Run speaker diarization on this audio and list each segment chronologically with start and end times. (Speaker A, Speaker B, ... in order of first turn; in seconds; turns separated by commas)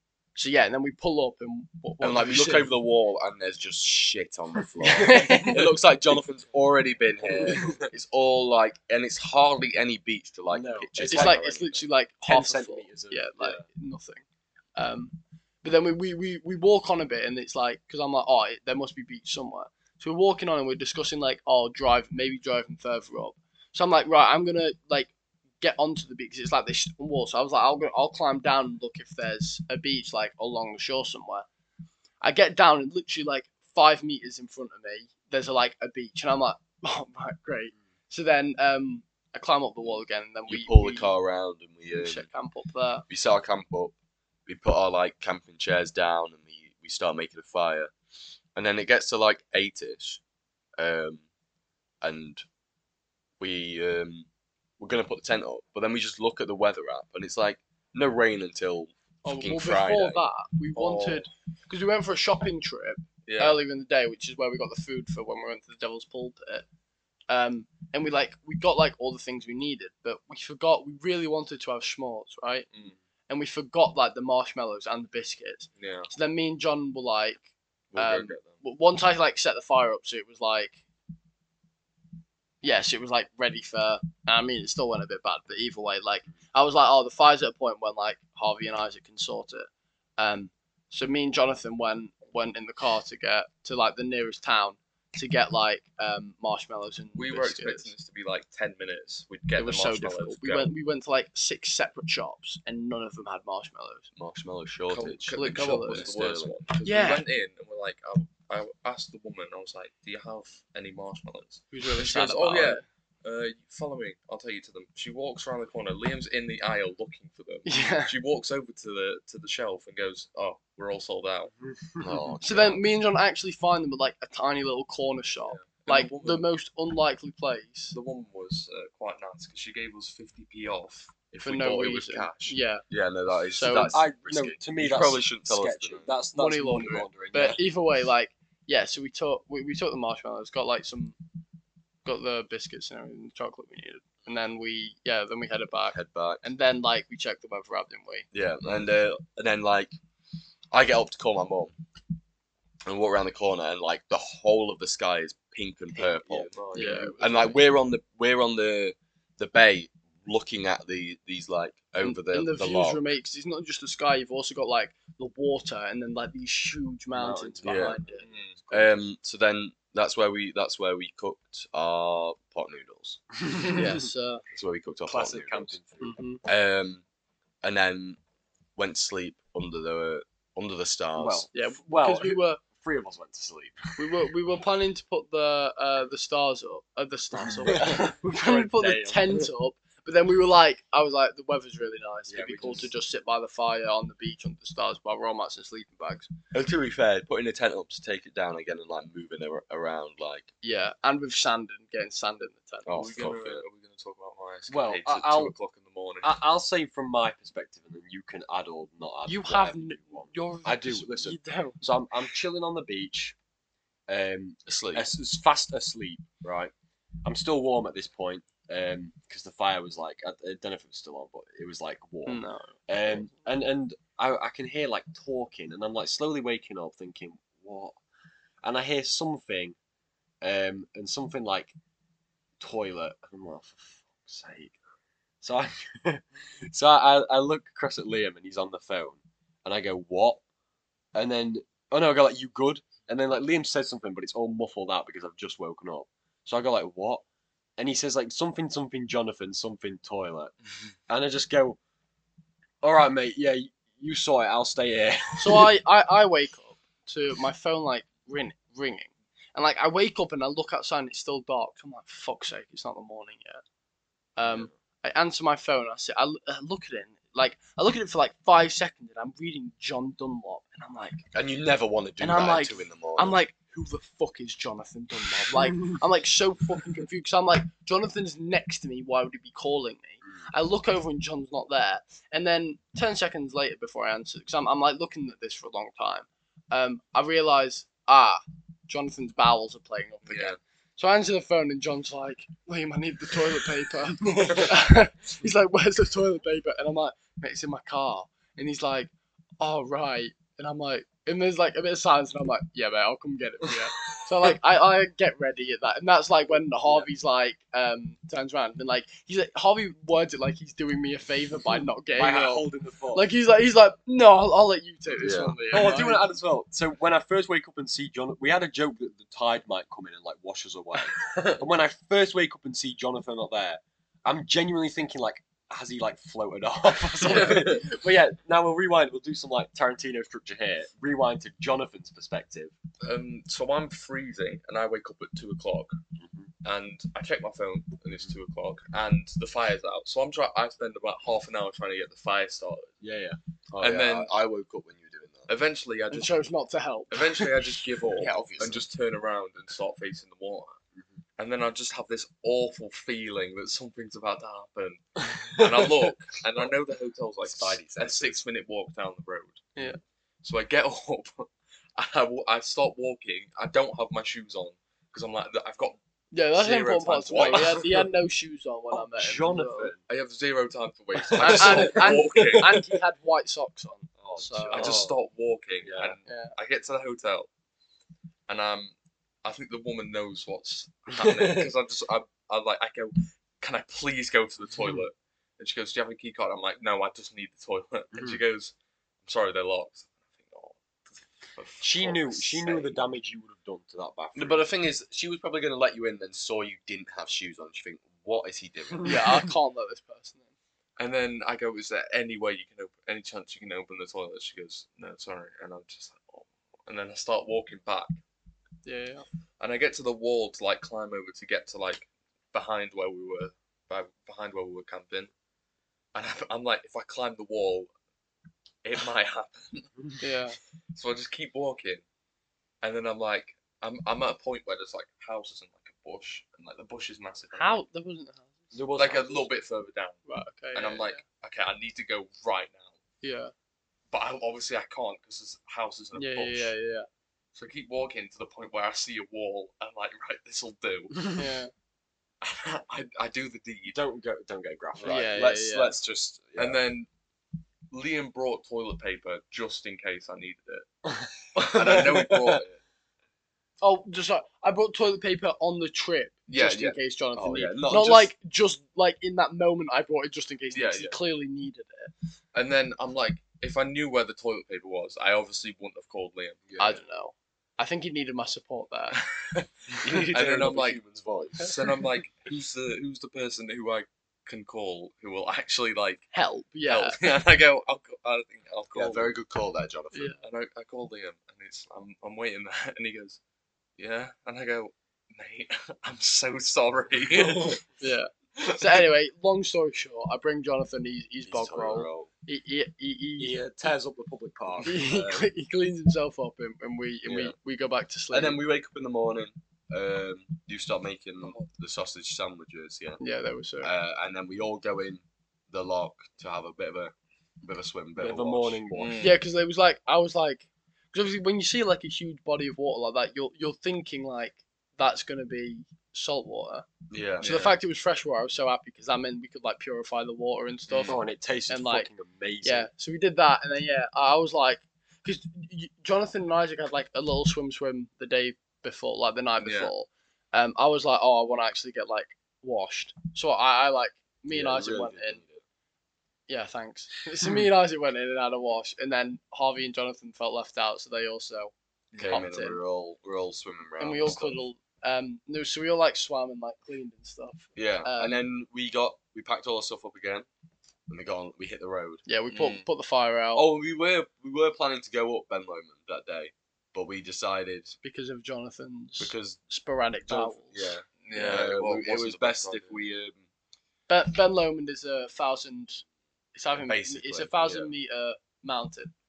Speaker A: 0.3-2.7, Speaker B: 2.0-11.8, Speaker A: 4.8-5.7, Speaker C: 7.3-7.6, Speaker A: 7.4-7.7, Speaker C: 10.5-11.4, Speaker A: 11.0-14.2, Speaker C: 12.3-13.6, Speaker A: 14.7-31.4, Speaker A: 32.2-41.1, Speaker B: 40.5-42.3, Speaker A: 41.9-43.0, Speaker B: 43.1-43.9, Speaker B: 44.5-47.9, Speaker B: 48.5-50.2, Speaker B: 50.8-51.2, Speaker B: 52.0-52.4, Speaker B: 53.4-54.3, Speaker B: 54.8-60.3, Speaker A: 59.2-66.6, Speaker D: 60.8-61.3, Speaker D: 63.2-63.6, Speaker A: 67.3-72.7, Speaker A: 73.3-77.4, Speaker D: 75.8-76.1, Speaker D: 77.9-78.5, Speaker A: 77.9-80.8, Speaker A: 82.6-97.9, Speaker D: 97.1-100.7, Speaker A: 99.6-104.1, Speaker B: 104.2-106.6, Speaker D: 104.9-121.5, Speaker A: 105.3-106.1, Speaker A: 106.8-107.2, Speaker A: 111.7-112.8, Speaker A: 117.7-118.1, Speaker C: 121.6-122.3, Speaker B: 122.0-122.8, Speaker A: 122.4-128.0, Speaker D: 125.4-126.5, Speaker D: 127.9-132.6, Speaker A: 131.4-132.8, Speaker B: 132.9-136.1, Speaker A: 133.5-133.9, Speaker C: 133.8-137.6, Speaker A: 136.3-141.2, Speaker A: 142.0-148.2, Speaker B: 145.9-146.4, Speaker B: 148.3-149.9, Speaker B: 150.7-151.7, Speaker B: 152.8-163.0, Speaker C: 155.9-157.6, Speaker A: 156.7-157.2, Speaker A: 162.0-168.3, Speaker C: 167.1-169.0, Speaker B: 167.6-168.0, Speaker D: 168.2-168.6, Speaker B: 168.7-173.2, Speaker C: 173.4-174.0, Speaker A: 173.7-174.4, Speaker B: 174.5-175.8, Speaker C: 175.1-176.2, Speaker A: 176.0-176.4, Speaker B: 176.4-177.0, Speaker B: 177.6-178.2, Speaker B: 178.8-181.5, Speaker C: 181.2-184.2, Speaker A: 181.5-182.6, Speaker A: 184.0-196.3, Speaker C: 187.4-189.5, Speaker C: 192.3-192.9, Speaker B: 196.5-200.5, Speaker A: 200.6-202.9, Speaker B: 202.8-203.6, Speaker D: 202.9-206.4, Speaker C: 204.7-205.5, Speaker C: 206.2-213.3, Speaker A: 209.2-211.9, Speaker C: 214.1-216.7, Speaker B: 214.7-215.1, Speaker C: 217.2-228.0, Speaker A: 222.2-223.3, Speaker C: 228.6-229.8, Speaker C: 230.4-231.7, Speaker C: 232.6-234.8, Speaker C: 235.4-240.4, Speaker C: 241.1-247.2, Speaker C: 247.8-250.5, Speaker C: 251.1-251.8, Speaker C: 252.8-255.7, Speaker A: 255.4-263.6, Speaker A: 264.4-271.2, Speaker B: 271.3-273.4, Speaker A: 272.2-316.2, Speaker D: 290.2-290.6, Speaker C: 312.1-313.3, Speaker B: 315.1-315.6, Speaker C: 315.7-332.7, Speaker D: 327.2-327.8, Speaker D: 333.0-336.0, Speaker C: 336.2-336.5, Speaker D: 336.6-342.9, Speaker C: 343.0-343.4, Speaker B: 343.7-345.5, Speaker D: 343.8-344.3, Speaker D: 345.5-346.4, Speaker A: 346.1-347.5, Speaker D: 347.1-350.8, Speaker B: 348.1-348.9, Speaker C: 350.9-351.2, Speaker D: 351.4-359.7, Speaker B: 357.5-358.4, Speaker D: 360.4-366.0, Speaker A: 366.3-369.9, Speaker D: 366.5-367.9, Speaker C: 367.4-367.8, Speaker C: 368.9-370.0, Speaker D: 370.1-372.8, Speaker C: 371.1-372.7, Speaker A: 371.4-375.0, Speaker C: 374.3-375.1, Speaker D: 374.6-377.5, Speaker C: 375.8-376.2, Speaker A: 376.2-376.5, Speaker D: 378.5-388.7, Speaker C: 381.2-381.7, Speaker C: 384.7-385.0, Speaker C: 388.1-388.4, Speaker D: 389.2-392.9, Speaker C: 391.8-394.6, Speaker B: 394.3-399.2, Speaker A: 399.0-400.5, Speaker D: 401.0-408.2, Speaker A: 408.8-409.2, Speaker D: 409.6-415.3, Speaker D: 416.1-417.9, Speaker D: 418.8-420.1, Speaker A: 420.2-420.6, Speaker D: 420.9-422.0, Speaker D: 422.8-427.8, Speaker A: 427.5-428.7, Speaker C: 428.7-429.5, Speaker D: 428.9-430.2, Speaker A: 430.3-431.2, Speaker D: 430.7-433.0, Speaker A: 433.2-433.5, Speaker D: 434.1-436.7, Speaker A: 436.1-437.1, Speaker D: 437.5-441.4, Speaker A: 441.3-441.7, Speaker D: 442.4-444.0, Speaker C: 443.9-445.3, Speaker B: 445.0-446.7, Speaker A: 445.1-445.9, Speaker D: 446.6-447.1, Speaker D: 447.9-450.9, Speaker C: 451.1-452.6, Speaker D: 451.5-452.7, Speaker A: 453.8-462.1, Speaker D: 456.5-456.9, Speaker B: 457.3-458.3, Speaker D: 460.7-461.1, Speaker D: 462.5-466.7, Speaker B: 466.7-467.0, Speaker A: 466.8-469.2, Speaker D: 469.1-471.0, Speaker B: 470.0-471.8, Speaker D: 471.6-476.3, Speaker A: 476.3-477.2, Speaker D: 476.8-479.3, Speaker B: 478.9-480.3, Speaker D: 480.4-483.4, Speaker D: 484.0-487.8, Speaker A: 488.0-493.6, Speaker D: 488.6-489.0, Speaker B: 491.4-492.3, Speaker C: 493.4-495.5, Speaker A: 494.8-498.6, Speaker B: 497.2-497.5, Speaker B: 498.3-503.2, Speaker D: 501.4-501.7, Speaker A: 503.2-503.9, Speaker B: 503.8-508.8, Speaker C: 508.2-509.3, Speaker D: 508.9-509.4, Speaker A: 509.2-516.9, Speaker B: 517.1-517.5, Speaker D: 517.4-517.8, Speaker A: 517.4-522.1, Speaker D: 520.9-521.2, Speaker C: 521.1-522.9, Speaker A: 522.6-535.4, Speaker D: 529.6-529.9, Speaker B: 534.5-535.6, Speaker A: 536.5-541.7, Speaker D: 542.1-542.4, Speaker B: 542.2-544.6, Speaker A: 542.3-542.8, Speaker A: 544.0-548.3, Speaker B: 547.8-550.5, Speaker B: 551.1-552.2, Speaker A: 552.3-553.6, Speaker D: 552.5-552.9, Speaker B: 553.5-558.0, Speaker A: 558.0-560.9, Speaker B: 559.2-559.6, Speaker B: 560.2-563.4, Speaker D: 561.2-563.0, Speaker A: 564.1-566.0, Speaker A: 566.5-569.1, Speaker B: 566.8-567.9